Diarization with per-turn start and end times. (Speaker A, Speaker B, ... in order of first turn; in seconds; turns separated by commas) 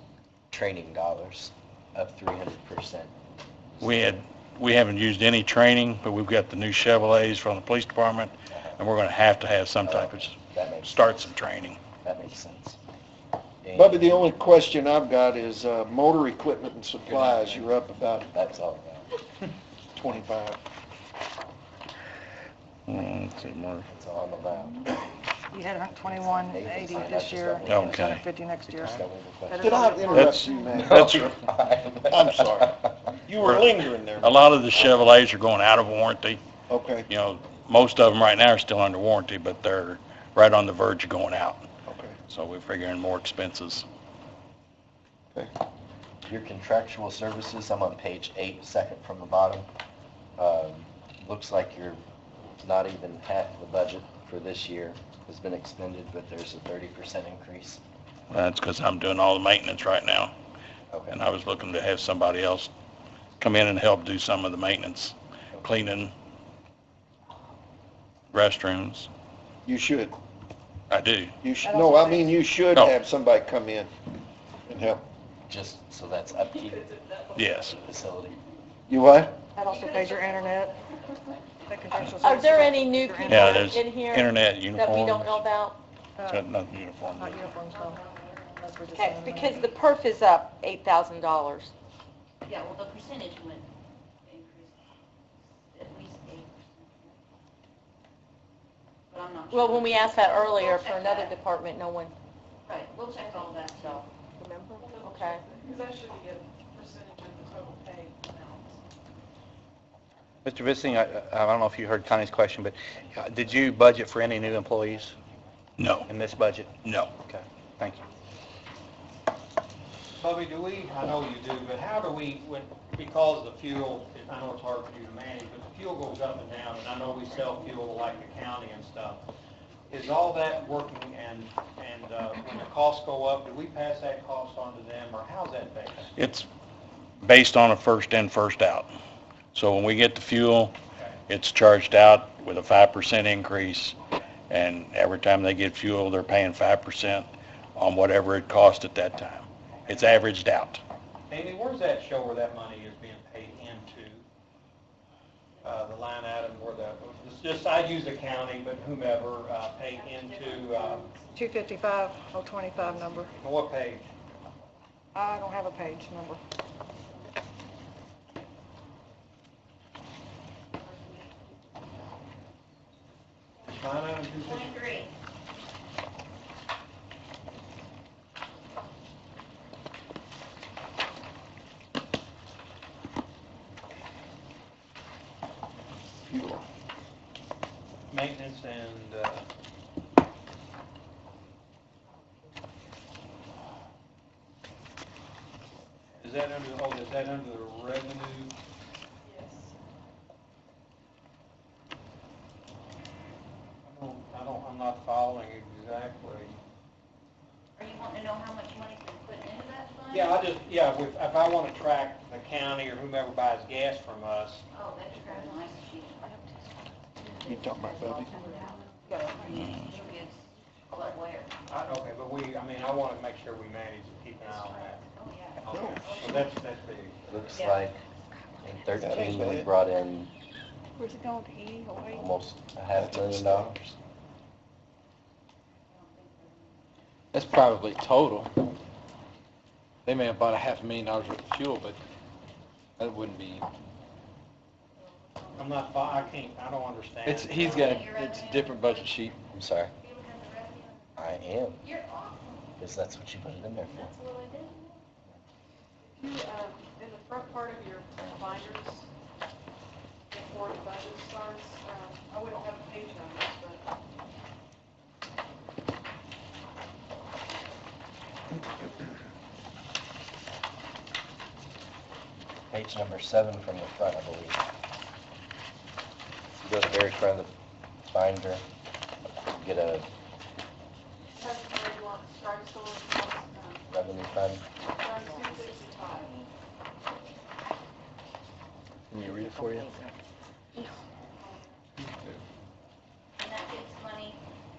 Speaker A: 0.5-3.1, Speaker A: 3.8-4.2, Speaker B: 3.8-11.8, Speaker A: 8.5-8.8, Speaker A: 9.8-11.1, Speaker A: 12.0-12.8, Speaker A: 13.6-14.3, Speaker C: 13.7-18.3, Speaker D: 17.1-17.6, Speaker A: 18.3-19.1, Speaker C: 19.9-20.6, Speaker B: 22.9-23.9, Speaker A: 23.9-24.9, Speaker E: 25.5-30.7, Speaker A: 25.9-30.2, Speaker B: 27.6-28.2, Speaker C: 29.6-31.4, Speaker A: 30.8-32.4, Speaker B: 30.9-31.2, Speaker C: 32.0-34.9, Speaker B: 33.4-36.4, Speaker C: 36.7-37.1, Speaker B: 37.1-41.7, Speaker C: 41.9-42.1, Speaker B: 42.3-43.9, Speaker A: 46.2-49.7, Speaker A: 50.4-52.0, Speaker A: 52.6-57.8, Speaker B: 58.3-60.3, Speaker B: 61.1-62.7, Speaker B: 63.4-66.1, Speaker B: 68.3-69.1, Speaker C: 69.6-70.1, Speaker B: 70.9-71.3, Speaker C: 71.4-73.9, Speaker E: 71.6-72.4, Speaker C: 74.7-75.0, Speaker A: 75.5-77.0, Speaker B: 77.3-77.8, Speaker A: 77.6-78.4, Speaker C: 78.9-79.4, Speaker E: 79.5-80.8, Speaker F: 79.6-82.1, Speaker E: 81.7-83.7, Speaker G: 82.2-85.8, Speaker B: 83.2-85.5, Speaker E: 86.2-86.5, Speaker B: 86.3-87.6, Speaker E: 87.1-88.0, Speaker F: 87.7-88.6, Speaker E: 88.5-89.7, Speaker G: 88.9-91.7, Speaker F: 92.4-93.7, Speaker F: 94.2-94.8, Speaker F: 95.7-97.2, Speaker F: 99.1-101.3, Speaker G: 99.5-102.1, Speaker F: 102.7-104.1, Speaker G: 103.3-105.4, Speaker H: 105.2-108.5, Speaker I: 110.4-115.1, Speaker B: 115.8-116.1, Speaker I: 116.1-116.7, Speaker B: 116.8-117.1, Speaker I: 117.3-118.0, Speaker J: 120.2-129.2, Speaker J: 129.9-136.1, Speaker B: 136.2-136.5, Speaker B: 137.2-138.9, Speaker B: 139.5-140.7, Speaker B: 141.3-144.0, Speaker B: 144.5-150.8, Speaker J: 151.3-154.2, Speaker J: 155.6-161.1, Speaker E: 161.3-163.3, Speaker J: 163.3-164.1, Speaker E: 165.1-166.4, Speaker F: 170.8-171.6, Speaker J: 173.6-175.0, Speaker F: 174.4-175.1, Speaker C: 186.3-186.6, Speaker J: 188.1-189.4, Speaker J: 196.2-198.5, Speaker H: 199.3-199.5, Speaker J: 203.8-206.6, Speaker F: 207.8-210.4, Speaker J: 210.1-214.6, Speaker F: 214.7-216.2, Speaker F: 217.2-221.5, Speaker C: 217.4-218.5, Speaker B: 219.5-219.9, Speaker J: 221.7-225.0, Speaker F: 224.4-226.6, Speaker J: 225.6-227.2, Speaker C: 225.7-226.2, Speaker A: 227.2-228.0, Speaker F: 227.5-227.9, Speaker A: 228.6-230.3, Speaker C: 228.9-229.7, Speaker E: 231.1-231.8, Speaker A: 232.0-233.7, Speaker F: 235.9-236.8, Speaker D: 237.3-238.6, Speaker D: 240.1-242.0, Speaker D: 243.0-243.6, Speaker F: 244.9-246.4, Speaker J: 245.6-248.0, Speaker D: 247.2-249.3, Speaker F: 247.5-249.2, Speaker A: 249.5-249.9, Speaker F: 250.0-252.7, Speaker A: 251.2-251.8, Speaker A: 252.8-254.1, Speaker F: 253.9-255.0, Speaker H: 256.2-258.0, Speaker H: 258.8-259.0, Speaker H: 260.3-263.8, Speaker A: 272.7-274.6, Speaker A: 276.6-277.5, Speaker A: 278.1-278.6, Speaker A: 279.4-280.1, Speaker H: 281.7-283.6, Speaker A: 283.9-284.6, Speaker H: 285.0-286.1, Speaker F: 285.1-286.1, Speaker J: 292.0-292.3, Speaker F: 293.4-294.4